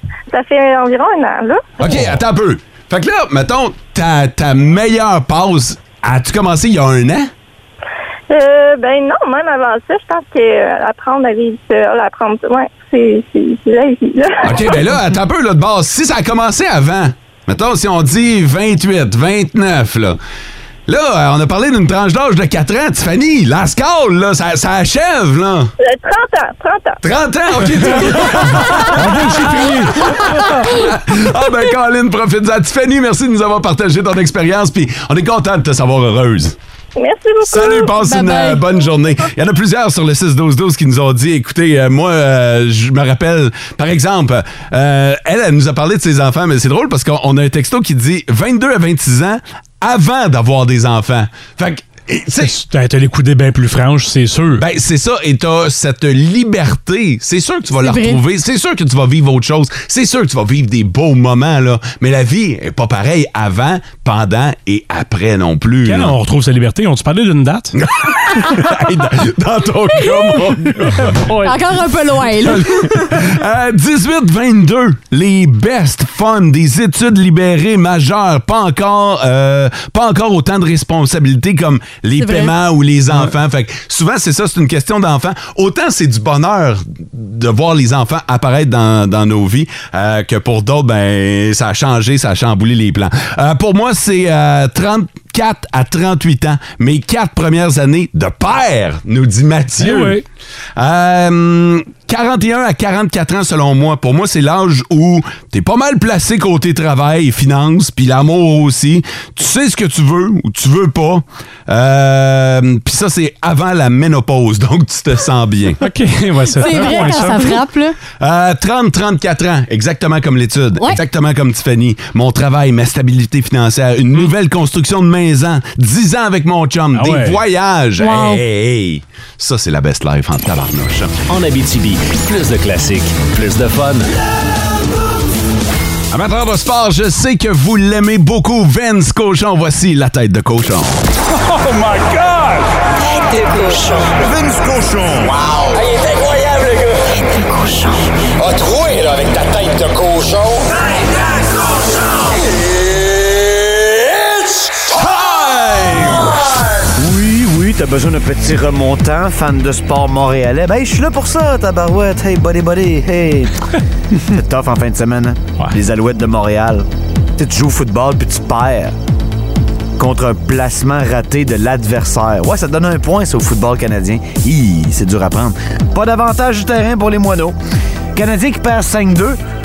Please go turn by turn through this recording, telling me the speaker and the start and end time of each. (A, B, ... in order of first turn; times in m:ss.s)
0:00.3-0:01.6 A
0:01.8-0:07.3 B
0:08.3-0:14.7 A
0:14.4-0:20.2 B
0:20.9-0:25.7 B
0:25.8-0:27.0 A
0:27.0-0:36.6 B
0:28.9-0:30.6 C
0:37.0-0:37.9 A
0:37.4-0:52.5 B
0:38.0-0:38.6 D
0:52.4-0:54.6 C
0:54.6-1:06.2 B
0:57.8-0:58.2 D
1:05.8-1:07.7 C
1:07.7-1:11.2 B
1:11.0-1:11.5 C
1:11.4-1:12.9 D
1:12.4-1:40.2 B
1:22.2-1:22.5 D
1:39.8-1:40.2 C
1:40.8-1:55.8 B
1:55.8-1:57.6 C
1:56.5-1:58.0 D
1:56.7-1:57.1 B
1:58.2-2:11.1 B
2:06.9-2:07.4 C
2:08.0-2:08.4 D
2:11.3-2:14.1 E
2:16.1-2:21.0 B
2:23.0-2:24.1 F
2:24.1-2:25.3 G
2:27.2-2:28.0 F
2:35.1-2:36.3 B
2:36.9-2:43.5 G
2:44.2-2:46.8 G
2:47.4-2:48.9 G
2:50.0-2:57.6 G
2:58.1-2:59.4 G